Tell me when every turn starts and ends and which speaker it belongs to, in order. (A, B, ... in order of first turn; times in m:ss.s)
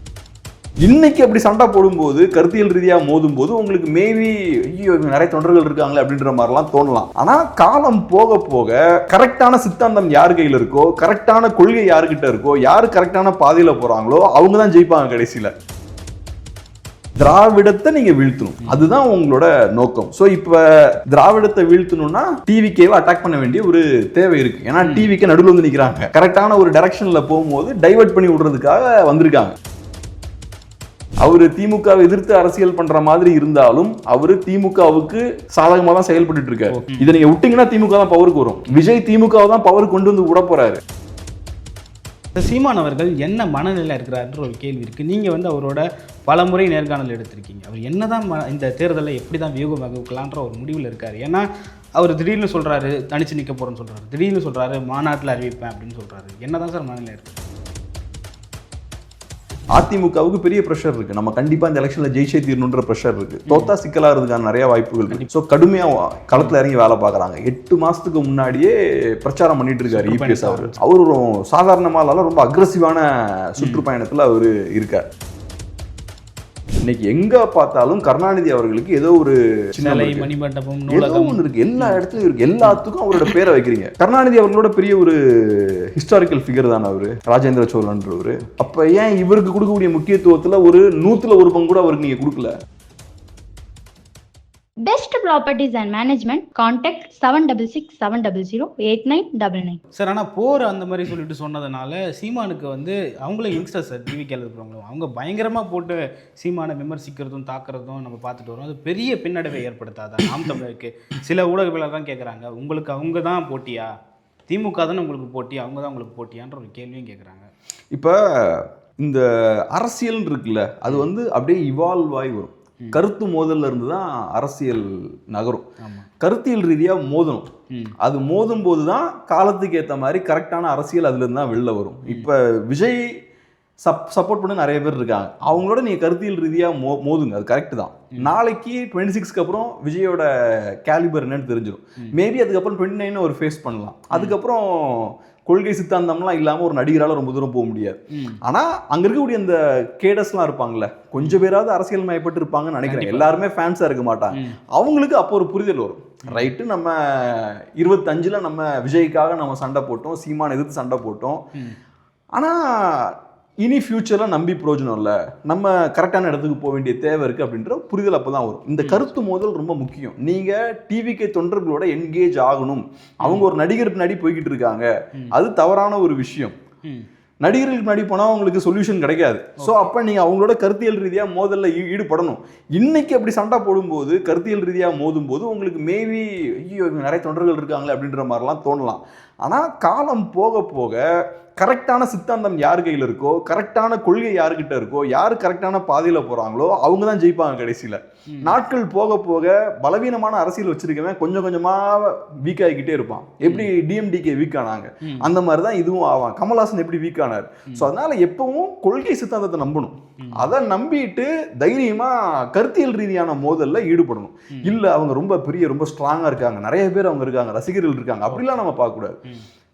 0:00.8-0:15.5 A
0:17.2-0:29.5 A
0:18.6-0:18.9 B
0:24.8-0:25.1 B
0:31.2-0:40.8 A
0:36.7-0:37.1 B
0:42.4-0:51.4 B
0:52.0-0:57.4 B
0:59.8-1:15.0 A
1:03.5-1:03.7 B
1:09.9-1:10.8 B
1:13.6-1:13.9 B
1:16.8-1:20.3 A
1:19.8-1:22.0 B
1:20.9-1:32.5 A
1:34.8-1:39.8 C
1:40.0-1:53.9 B
1:54.5-1:57.5 B
1:57.9-2:05.6 A
2:05.8-2:06.1 B
2:06.2-2:07.5 A
2:08.0-2:13.1 A
2:13.8-2:41.4 A
2:24.1-2:24.4 B
2:32.9-2:33.4 B
2:34.3-2:34.6 B
2:42.4-2:56.6 A
2:48.8-2:49.1 B
2:57.4-3:11.0 A
2:59.6-2:59.9 B
3:11.6-3:39.2 A
3:23.4-3:23.7 B
3:25.0-3:25.3 B
3:30.2-3:30.5 B
3:38.3-3:38.6 B